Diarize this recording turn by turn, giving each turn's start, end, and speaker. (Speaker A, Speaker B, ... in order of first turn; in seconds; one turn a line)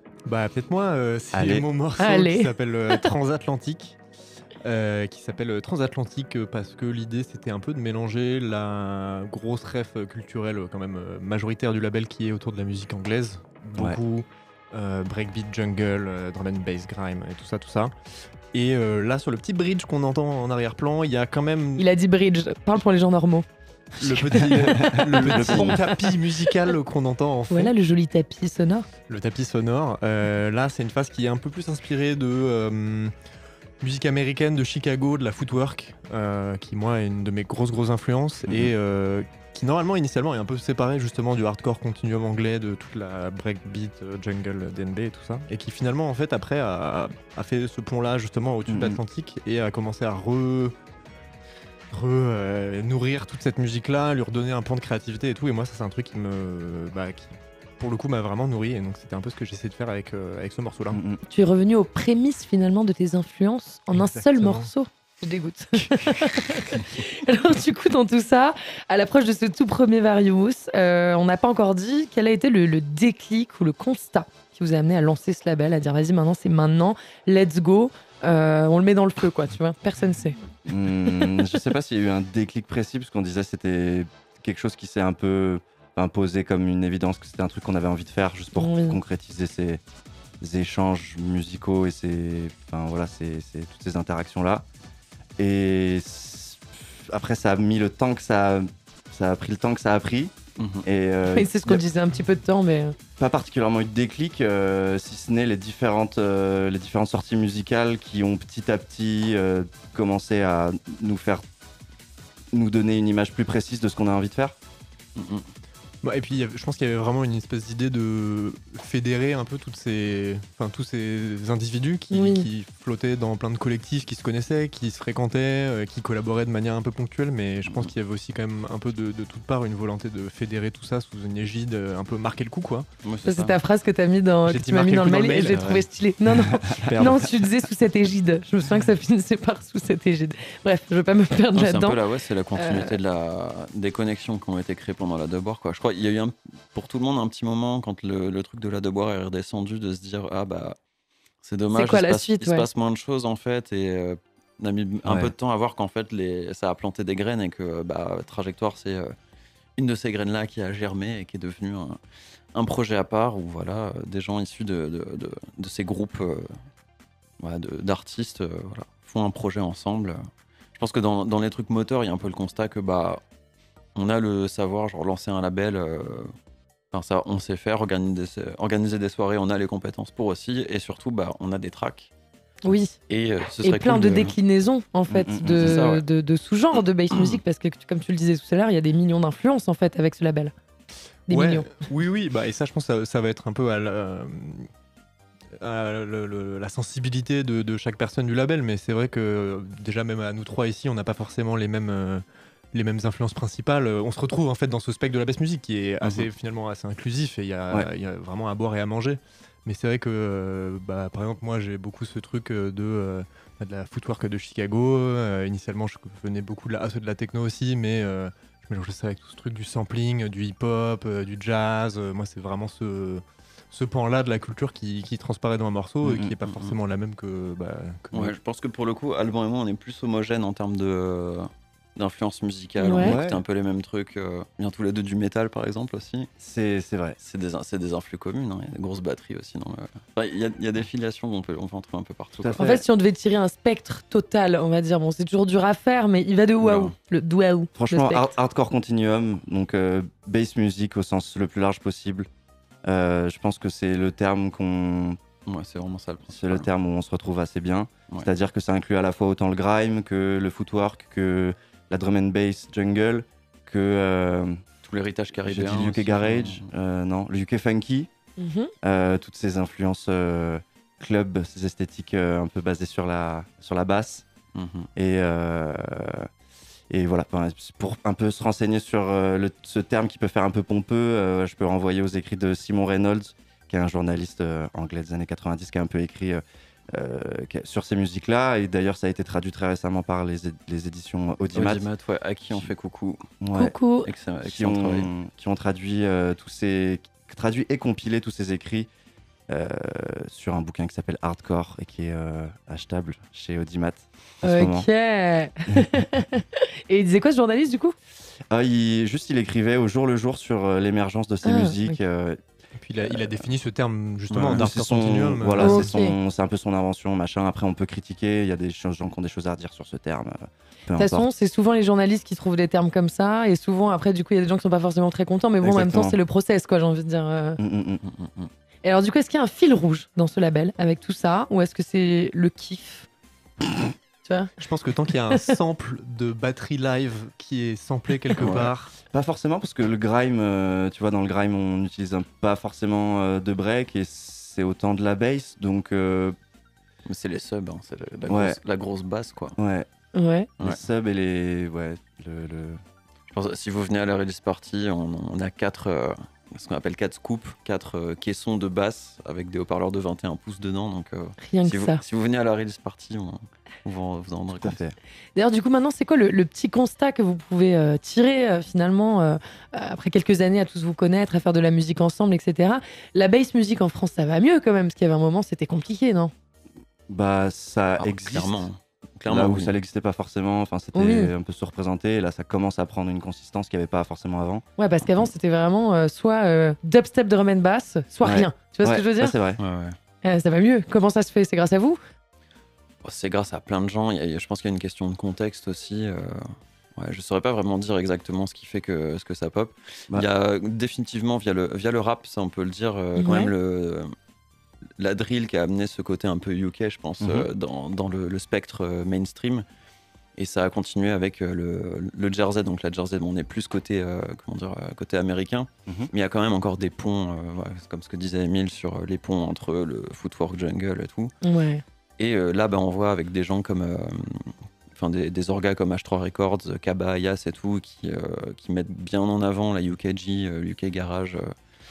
Speaker A: 0.3-4.0
Speaker B: 1.3-1.6
Speaker C: 2.0-3.1
Speaker A: 4.6-17.9
Speaker A: 18.5-21.9
Speaker C: 21.8-23.4
Speaker A: 24.0-27.7
Speaker C: 24.0-26.1
Speaker B: 24.7-25.8
Speaker C: 27.5-28.9
Speaker A: 29.1-33.1
Speaker A: 33.8-50.8
Speaker B: 48.7-49.0
Speaker A: 51.9-61.0
Speaker B: 60.9-61.2
Speaker C: 61.3-80.4
Speaker A: 63.9-64.7
Speaker B: 80.7-89.8
Speaker C: 88.6-89.0
Speaker B: 90.4-94.7
Speaker B: 95.4-101.8
Speaker D: 100.6-100.9
Speaker C: 101.3-103.0
Speaker B: 103.2-111.4
Speaker B: 112.5-114.5
Speaker D: 115.2-115.5
Speaker A: 116.0-132.9
Speaker C: 122.1-122.5
Speaker D: 127.6-127.9
Speaker D: 133.0-133.6
Speaker C: 133.2-142.0
Speaker A: 134.5-135.7
Speaker D: 135.5-135.8
Speaker A: 136.7-137.3
Speaker D: 141.6-150.8
Speaker C: 142.6-143.0
Speaker D: 151.4-159.2
Speaker C: 151.7-152.7
Speaker B: 155.1-155.3
Speaker D: 159.8-162.0
Speaker D: 162.5-166.6
Speaker D: 167.4-173.2
Speaker D: 173.9-176.3
Speaker D: 176.9-182.1
Speaker C: 182.6-183.0
Speaker D: 183.1-184.3
Speaker C: 183.6-190.5
Speaker B: 185.1-185.8
Speaker D: 185.5-186.1
Speaker D: 187.1-187.4
Speaker C: 191.3-191.7
Speaker A: 191.3-194.7
Speaker A: 195.6-228.4
Speaker B: 206.0-206.3
Speaker B: 226.1-226.3
Speaker D: 226.4-226.8
Speaker D: 228.1-236.3
Speaker C: 232.8-233.2
Speaker B: 233.0-233.4
Speaker B: 236.4-237.2
Speaker D: 237.2-242.6
Speaker B: 242.4-242.8
Speaker C: 242.6-248.3
Speaker D: 246.6-246.9
Speaker B: 247.8-252.3
Speaker B: 252.8-255.2
Speaker D: 255.5-256.7
Speaker B: 256.3-264.6
Speaker D: 264.8-266.6
Speaker B: 265.4-268.1
Speaker C: 268.4-268.7
Speaker B: 268.8-274.3
Speaker D: 274.6-274.9
Speaker B: 275.0-276.3
Speaker B: 276.9-291.8
Speaker D: 291.5-293.3
Speaker B: 293.4-293.8
Speaker C: 293.5-294.1
Speaker D: 294.1-295.1
Speaker B: 294.4-298.9
Speaker B: 299.5-304.9
Speaker C: 304.4-307.9
Speaker B: 305.7-306.0
Speaker B: 308.5-312.4
Speaker C: 311.4-312.0
Speaker A: 312.8-315.9
Speaker D: 314.3-314.7
Speaker B: 314.5-321.3
Speaker C: 315.6-316.2
Speaker C: 321.0-327.6
Speaker B: 325.6-326.1
Speaker B: 327.6-328.0
Speaker D: 328.0-328.5
Speaker C: 328.8-333.1
Speaker C: 334.2-334.5
Speaker A: 334.6-338.9
Speaker D: 338.4-338.7
Speaker B: 339.1-346.4
Speaker D: 347.1-349.6
Speaker B: 348.3-348.6
Speaker B: 349.6-349.9
Speaker C: 350.1-350.5
Speaker B: 350.6-352.8
Speaker D: 353.3-364.8
Speaker C: 361.4-362.0
Speaker B: 364.6-365.0
Speaker C: 365.4-376.3
Speaker B: 377.1-378.6
Speaker D: 378.0-379.7
Speaker B: 379.3-384.6
Speaker C: 380.9-381.3
Speaker C: 384.8-389.4
Speaker B: 388.2-389.6
Speaker D: 389.6-390.0
Speaker C: 390.2-392.0
Speaker D: 393.0-404.1
Speaker C: 403.2-403.5
Speaker D: 405.0-409.6
Speaker B: 407.2-407.5
Speaker D: 410.4-421.3
Speaker C: 421.4-421.8
Speaker D: 422.2-431.5